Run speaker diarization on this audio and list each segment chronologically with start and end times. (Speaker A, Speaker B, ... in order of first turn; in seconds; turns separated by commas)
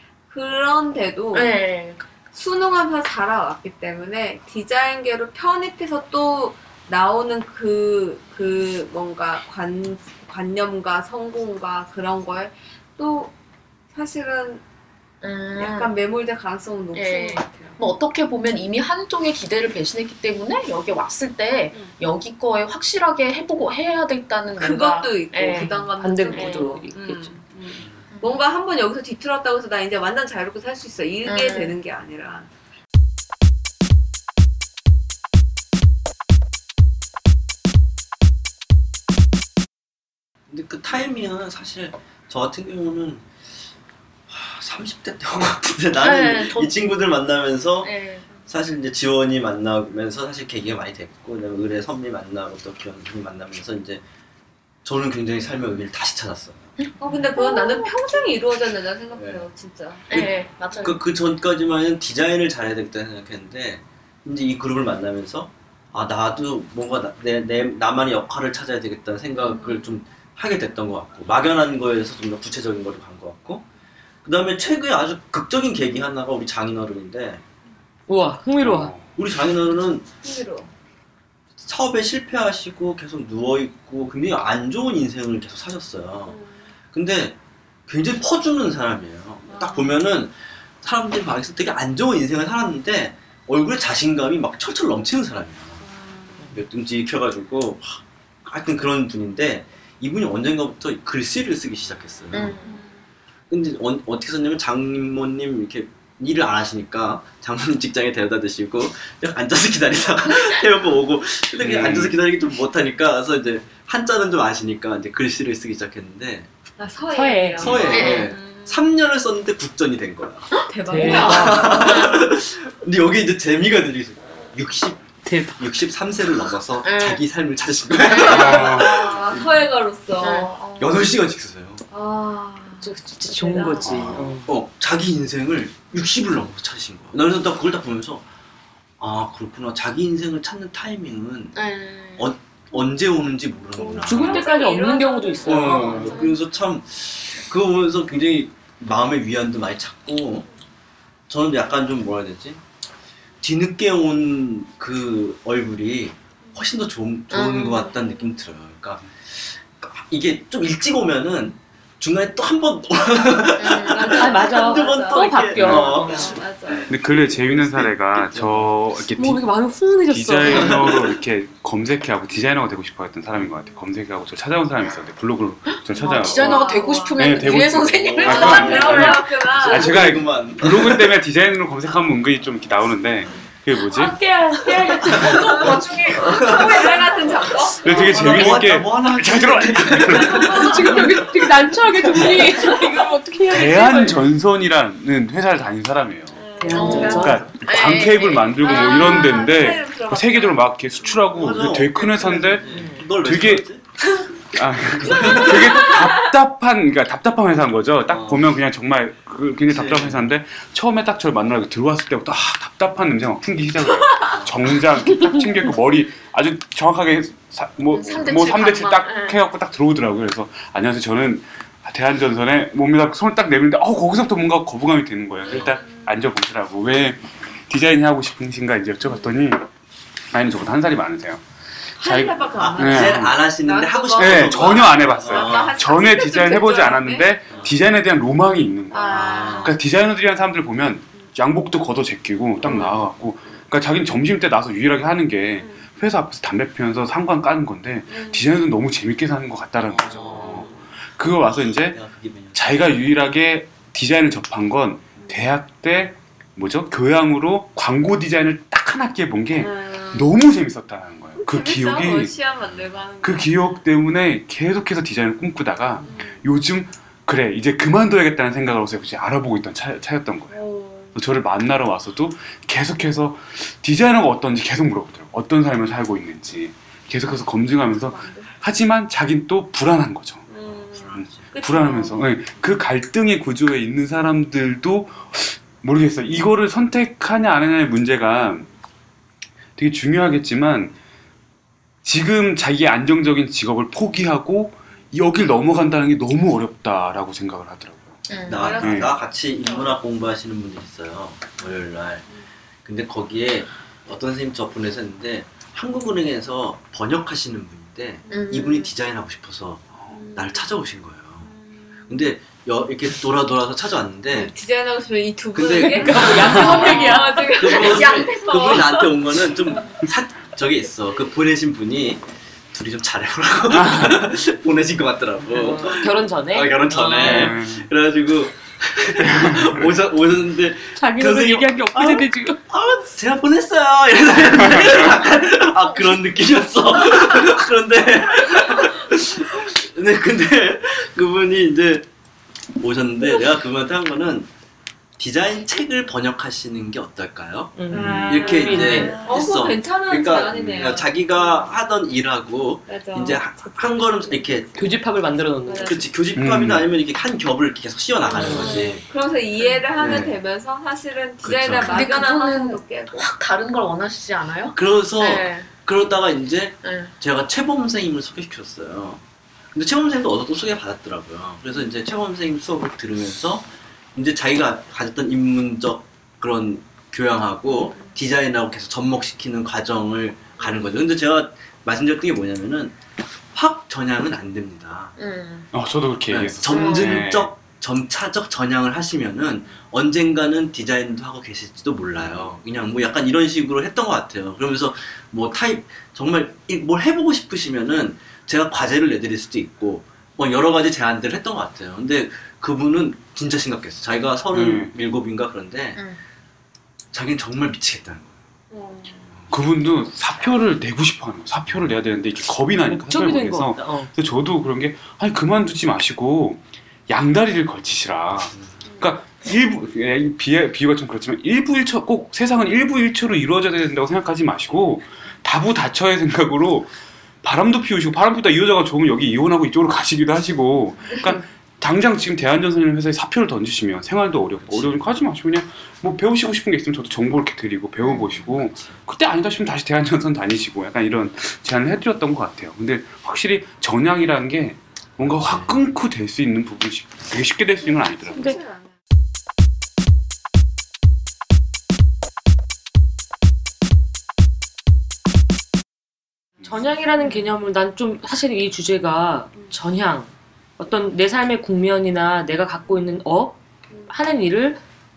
Speaker A: 0.3-1.6, Speaker B: 1.3-2.0, Speaker A: 2.3-13.3, Speaker A: 13.9-14.6, Speaker B: 15.2-15.9, Speaker A: 15.6-17.8, Speaker B: 16.9-26.7, Speaker A: 24.6-32.5, Speaker C: 26.0-27.3, Speaker B: 28.1-28.4, Speaker B: 31.2-31.8, Speaker D: 40.5-43.3, Speaker D: 44.3-47.9, Speaker B: 46.0-46.9, Speaker B: 47.8-48.3, Speaker D: 48.5-54.0, Speaker D: 54.8-56.7, Speaker B: 56.8-58.3, Speaker A: 57.0-60.9, Speaker D: 59.1-59.4, Speaker B: 60.1-61.0, Speaker D: 60.1-73.7, Speaker A: 69.4-70.0, Speaker D: 74.2-77.4, Speaker C: 78.1-78.9, Speaker E: 78.6-79.1, Speaker D: 79.2-80.0, Speaker A: 80.2-80.7, Speaker D: 81.6-86.4, Speaker A: 86.3-86.6, Speaker D: 86.9-95.8, Speaker A: 89.5-90.0, Speaker A: 95.8-96.4, Speaker D: 96.5-102.6, Speaker B: 102.3-102.8, Speaker A: 102.6-102.9, Speaker D: 103.5-116.5, Speaker E: 111.6-112.2, Speaker A: 116.8-118.9, Speaker C: 117.1-117.7, Speaker D: 117.6-125.0, Speaker B: 117.9-118.3, Speaker B: 120.5-122.3, Speaker A: 120.7-122.0, Speaker C: 120.9-121.7, Speaker C: 125.2-125.6, Speaker D: 125.5-129.7, Speaker B: 126.8-127.2, Speaker B: 128.0-129.1, Speaker E: 128.1-129.1, Speaker A: 128.3-130.5, Speaker B: 130.2-131.0, Speaker D: 130.8-131.8, Speaker A: 131.9-134.3, Speaker C: 132.8-134.5, Speaker E: 133.8-134.3, Speaker D: 134.4-138.2, Speaker D: 139.0-141.6, Speaker B: 141.5-142.3, Speaker D: 142.2-144.4, Speaker A: 143.8-146.3, Speaker C: 144.0-146.1, Speaker D: 145.4-150.5, Speaker B: 145.5-146.4, Speaker D: 151.3-152.6, Speaker D: 153.4-168.8, Speaker B: 157.3-157.9, Speaker A: 157.9-158.4, Speaker B: 163.6-164.3, Speaker A: 163.7-166.9, Speaker C: 163.9-166.4, Speaker E: 165.6-166.0, Speaker E: 166.9-169.4, Speaker C: 169.2-170.9, Speaker E: 170.1-184.2, Speaker D: 170.4-171.2, Speaker A: 173.6-173.8, Speaker B: 175.7-179.1, Speaker A: 176.3-177.4, Speaker D: 177.9-181.1, Speaker A: 178.2-180.1, Speaker C: 183.8-185.4, Speaker B: 185.0-187.6, Speaker D: 185.1-187.0, Speaker A: 186.4-188.6, Speaker E: 187.8-190.6, Speaker D: 187.8-191.4, Speaker C: 190.3-194.2, Speaker D: 192.0-192.7, Speaker E: 193.5-203.7, Speaker A: 196.3-197.5, Speaker C: 196.6-197.5, Speaker B: 196.7-199.3, Speaker A: 198.6-200.7, Speaker D: 201.0-203.9, Speaker C: 202.7-203.1, Speaker E: 204.5-229.6, Speaker D: 204.7-206.1, Speaker A: 205.1-206.3, Speaker D: 208.1-208.6, Speaker D: 209.6-210.3, Speaker D: 214.2-214.7, Speaker C: 215.1-215.4, Speaker B: 217.9-219.4, Speaker D: 225.5-225.8, Speaker A: 225.5-226.1, Speaker E: 230.3-231.4, Speaker A: 232.0-237.3, Speaker E: 232.0-233.4, Speaker D: 232.5-235.8, Speaker E: 234.1-252.0, Speaker D: 237.5-237.8, Speaker A: 238.9-239.7, Speaker D: 238.9-239.8, Speaker A: 242.6-243.0, Speaker A: 245.6-245.9, Speaker A: 248.1-248.5, Speaker D: 249.8-253.1, Speaker A: 250.3-250.8, Speaker E: 252.5-262.4, Speaker A: 255.2-255.4, Speaker A: 259.6-260.4, Speaker A: 261.4-263.8, Speaker E: 263.2-270.6, Speaker A: 266.1-266.4, Speaker A: 270.5-271.2, Speaker E: 271.1-280.4, Speaker A: 277.2-278.6, Speaker D: 280.5-281.5, Speaker A: 280.5-282.4, Speaker E: 281.1-288.7, Speaker E: 289.8-290.9, Speaker E: 292.0-299.1, Speaker B: 298.3-298.7, Speaker D: 298.4-302.3, Speaker A: 298.5-300.0, Speaker D: 302.8-311.5, Speaker B: 308.3-308.9, Speaker A: 310.1-310.6, Speaker A: 311.4-312.3, Speaker D: 312.1-314.5, Speaker A: 314.3-319.9, Speaker D: 315.5-342.1, Speaker C: 315.7-317.5, Speaker E: 316.3-317.2, Speaker B: 317.7-318.8, Speaker E: 323.7-324.2, Speaker C: 325.5-327.6, Speaker E: 327.2-327.9, Speaker E: 329.2-329.9, Speaker C: 330.9-332.6, Speaker E: 334.7-335.1, Speaker D: 342.8-344.5, Speaker D: 345.2-354.7, Speaker C: 347.8-349.3, Speaker A: 347.9-351.8, Speaker B: 349.3-349.6, Speaker A: 352.9-354.6, Speaker C: 354.7-355.9, Speaker A: 355.7-356.1, Speaker D: 355.7-359.0, Speaker E: 356.4-356.9, Speaker C: 358.3-358.8, Speaker A: 358.3-363.3, Speaker D: 360.0-360.3, Speaker D: 361.4-362.0, Speaker B: 361.7-365.7, Speaker D: 364.7-369.2, Speaker B: 366.8-367.1, Speaker D: 369.7-382.9, Speaker A: 377.6-378.1, Speaker D: 383.5-385.1, Speaker B: 385.2-385.7, Speaker E: 385.7-387.5, Speaker D: 386.3-406.0, Speaker B: 386.7-387.2, Speaker E: 392.3-392.5, Speaker E: 404.5-404.9, Speaker B: 405.9-406.2, Speaker D: 407.1-408.3, Speaker B: 408.7-409.2, Speaker E: 409.5-448.5, Speaker C: 412.9-414.1, Speaker D: 418.5-418.8, Speaker D: 434.3-435.1, Speaker D: 445.4-445.8, Speaker A: 447.8-448.9, Speaker C: 456.6-463.6, Speaker C: 464.1-464.8